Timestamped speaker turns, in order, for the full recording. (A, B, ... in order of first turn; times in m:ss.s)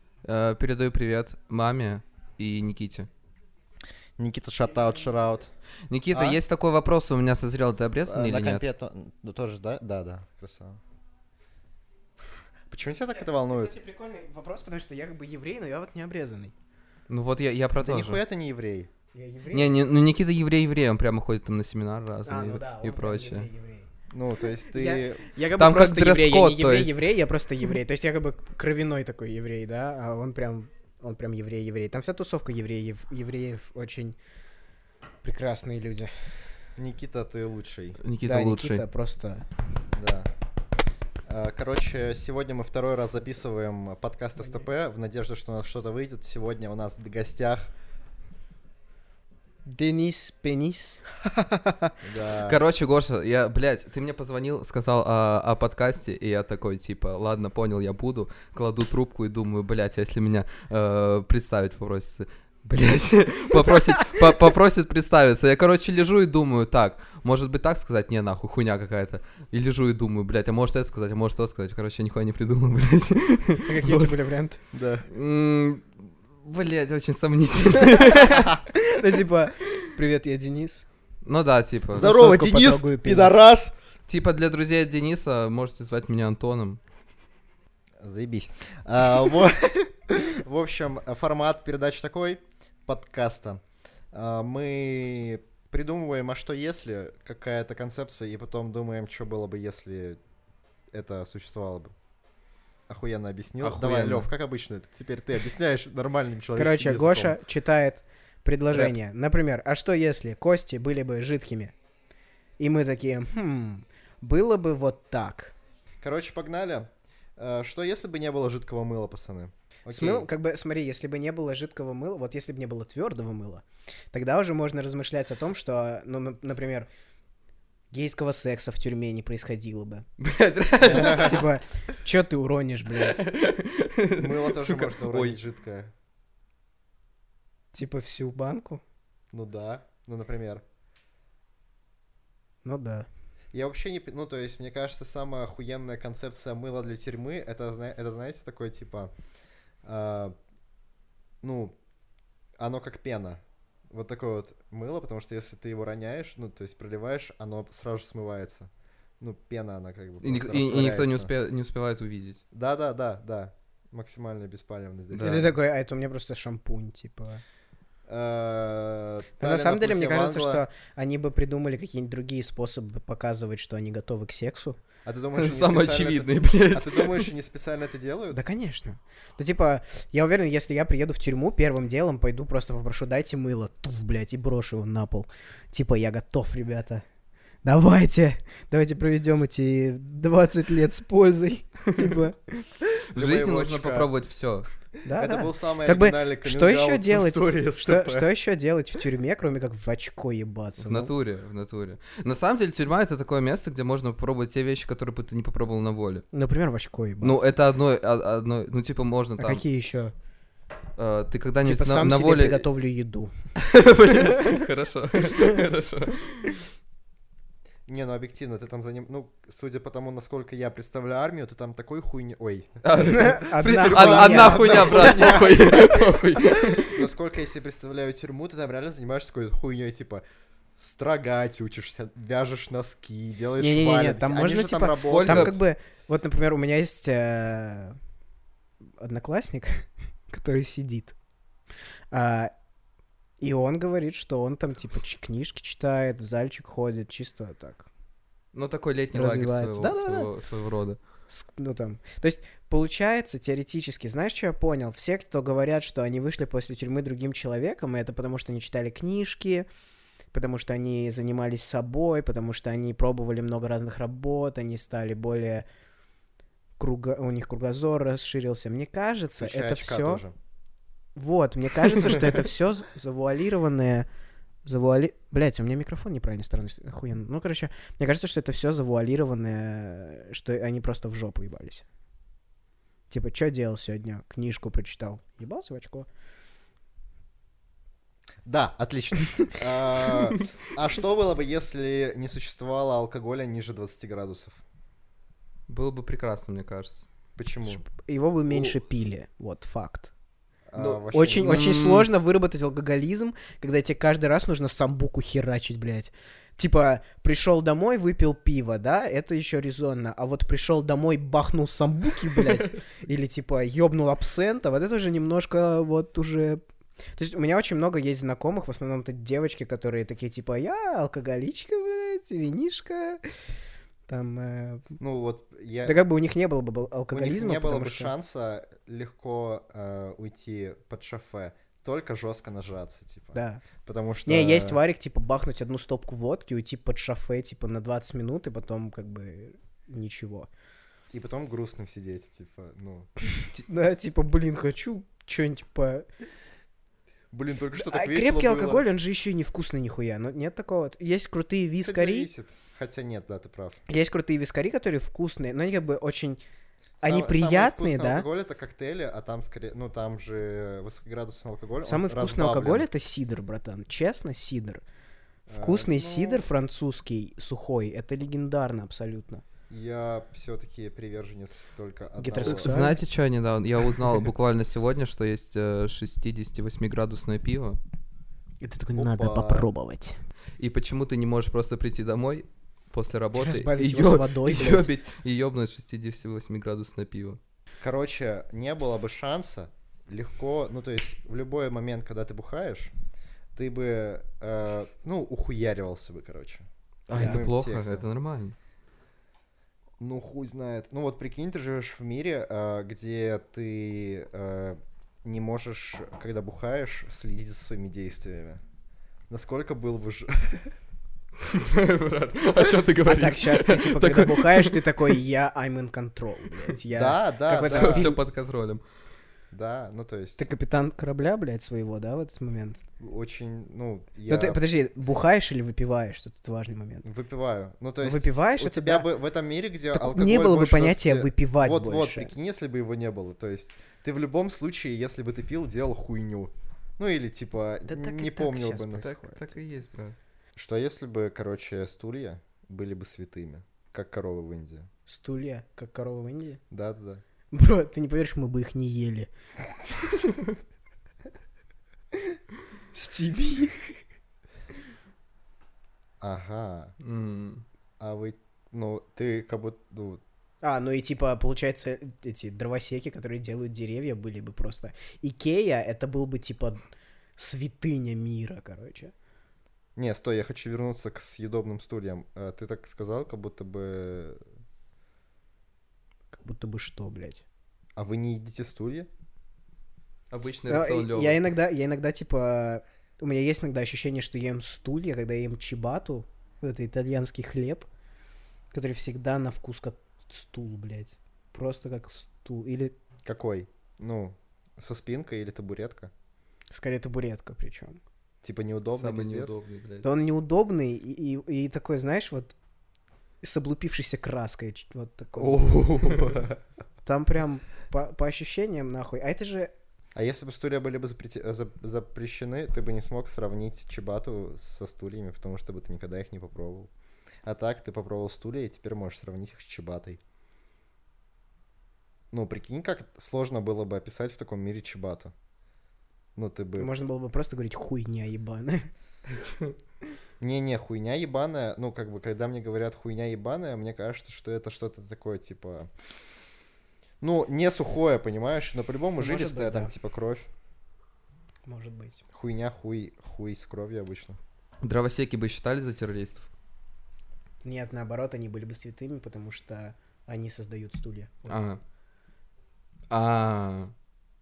0:00.2-0:03.1 A
0:04.2-0:05.5 B
0:05.9-0:08.6 A
0:06.1-0:06.4 B
0:08.1-0:10.8 B
0:12.7-0:13.8 B
0:13.5-0:16.5 C
0:17.1-0:18.2 A
0:17.8-0:18.9 B
0:19.1-0:19.7 C
0:19.5-0:23.5 A
0:22.3-0:23.9 C
0:24.1-0:25.3 B
0:24.7-0:34.2 C
0:25.6-0:27.0 A
0:35.2-0:36.1 C
0:36.8-0:38.0 B
0:38.0-0:38.8 A
0:38.2-0:39.5 C
0:40.0-0:40.3 B
0:41.3-0:47.7 B
0:49.7-0:51.0 C
0:51.3-0:52.6 B
0:52.4-1:14.2 A
1:13.6-1:14.6 C
1:14.7-1:15.1 B
1:15.1-1:18.6 A
1:17.9-1:20.9 C
1:21.2-1:22.1 A
1:21.9-1:23.4 C
1:21.9-1:23.7 B
1:24.1-1:26.8 A
1:28.0-1:40.2 B
1:40.9-1:41.9 B
1:42.9-1:47.4 B
1:43.6-1:44.3 A
1:46.6-1:51.7 C
1:52.6-1:55.5 C
1:56.0-2:00.3 B
1:59.9-2:06.9 C
2:07.9-2:10.1 C
2:10.2-2:11.5 A
2:10.8-2:13.3 C
2:13.0-2:15.4 A
2:14.2-2:15.9 B
2:17.7-2:18.8 C
2:19.3-2:20.6 B
2:22.6-2:23.1 C
2:23.5-2:29.1 B
2:29.8-2:30.3 B
2:31.4-2:31.8 B
2:32.6-2:41.3 B
2:40.2-2:42.4 A
2:42.5-2:45.5 B
2:45.1-2:45.5 A
2:45.2-2:47.4 C
2:48.1-2:50.6 B
2:49.4-2:54.8 C
2:55.0-2:58.4 B
2:55.4-2:57.3 A
2:58.3-3:07.0 C
3:07.6-3:12.6 C
3:13.1-3:14.7 A
3:13.1-3:14.1 B
3:15.0-3:21.1 C
3:15.1-3:18.3 B
3:20.8-3:26.3 A
3:26.3-3:27.5 C
3:27.2-3:29.6 A
3:29.4-3:30.1 C
3:31.0-3:32.6 A
3:31.6-3:33.3 C
3:33.6-3:36.6 A
3:34.2-3:34.4 C
3:37.9-3:42.7 B
3:42.8-3:47.1 A
3:43.0-3:46.0 C
3:43.8-3:45.9 B
3:46.7-3:50.2 B
3:50.8-3:55.6 B
3:53.6-3:58.0 C
3:55.0-3:55.6 A
3:59.0-4:01.2 C
4:02.1-4:02.5 C
4:03.4-4:07.9 C
4:08.5-4:11.0 A
4:09.1-4:10.3 C
4:11.3-4:19.7 C
4:20.3-4:25.7 C
4:26.8-4:30.2 C
4:29.4-4:30.4 B
4:31.2-4:34.1 C
4:34.7-4:41.8 C
4:43.1-4:46.1 C
4:48.4-4:54.6 B
4:55.7-4:57.1 A
4:57.4-4:57.8 B
4:57.7-5:00.1 C
5:00.7-5:01.8 B
5:00.8-5:02.1 A
5:01.1-5:16.6 C
5:17.2-5:23.2 C
5:24.1-5:25.0 C
5:25.0-5:26.0 B
5:25.8-5:28.1 C
5:27.1-5:34.8 B
5:33.3-5:33.6 C
5:34.3-5:40.5 C
5:41.1-5:43.1 B
5:43.7-5:46.1 C
5:47.3-5:48.8 B
5:47.7-5:52.3 C
5:51.8-5:53.8 B
5:53.9-5:56.4 C
5:57.0-6:02.9 B
5:57.0-5:58.3 C
6:01.8-6:04.8 C
6:05.5-6:06.5 B
6:05.6-6:09.4 C
6:09.7-6:12.9 B
6:12.2-6:13.0 C
6:12.4-6:17.8 A
6:18.6-6:20.2 C
6:19.0-6:19.7 B
6:20.6-6:27.4 A
6:23.4-6:24.9 C
6:27.8-6:32.9 B
6:33.6-6:38.0 B
6:37.1-6:38.6 A
6:37.1-6:37.4 C
6:40.0-6:48.6 B
6:49.3-6:50.7 B
6:51.4-6:54.8 A
6:53.0-6:58.2 C
6:56.9-6:58.2 B
6:57.6-6:58.8 A
6:59.5-7:00.5 B
7:00.4-7:02.8 C
7:03.0-7:04.6 B
7:04.3-7:07.1 C
7:07.0-7:19.1 B
7:08.0-7:09.1 C
7:09.9-7:12.3 C
7:17.9-7:19.5 C
7:19.0-7:20.2 A
7:20.6-7:24.9 B
7:25.1-7:26.6 C
7:26.7-7:27.2 B
7:27.5-7:29.3 C
7:32.9-7:34.0 C
7:36.2-7:37.0 B
7:37.0-7:37.6 A
7:38.0-7:40.2 B
7:40.6-7:46.8 C
7:47.4-7:49.1 C
7:50.0-7:54.4 B
7:56.3-7:57.4 C
7:58.0-7:59.1 B
8:00.3-8:01.4 A
8:00.7-8:07.9 C
8:08.7-8:13.0 C
8:13.2-8:16.1 B
8:16.7-8:18.0 C
8:18.4-8:19.6 B
8:18.9-8:20.1 A
8:20.0-8:22.6 C
8:23.4-8:26.3 C
8:25.4-8:26.6 A
8:27.0-8:29.7 C
8:30.2-8:36.9 B
8:37.4-8:40.2 B
8:42.3-8:45.3 B
8:46.4-8:46.9 B
8:46.8-8:48.9 C
8:50.4-8:55.9 B
8:57.2-9:00.5 B
8:59.2-8:59.9 C
9:01.7-9:02.2 C
9:02.3-9:04.4 B
9:04.8-9:06.5 A
9:07.6-9:11.6 C
9:11.5-9:11.8 A
9:13.1-9:13.9 A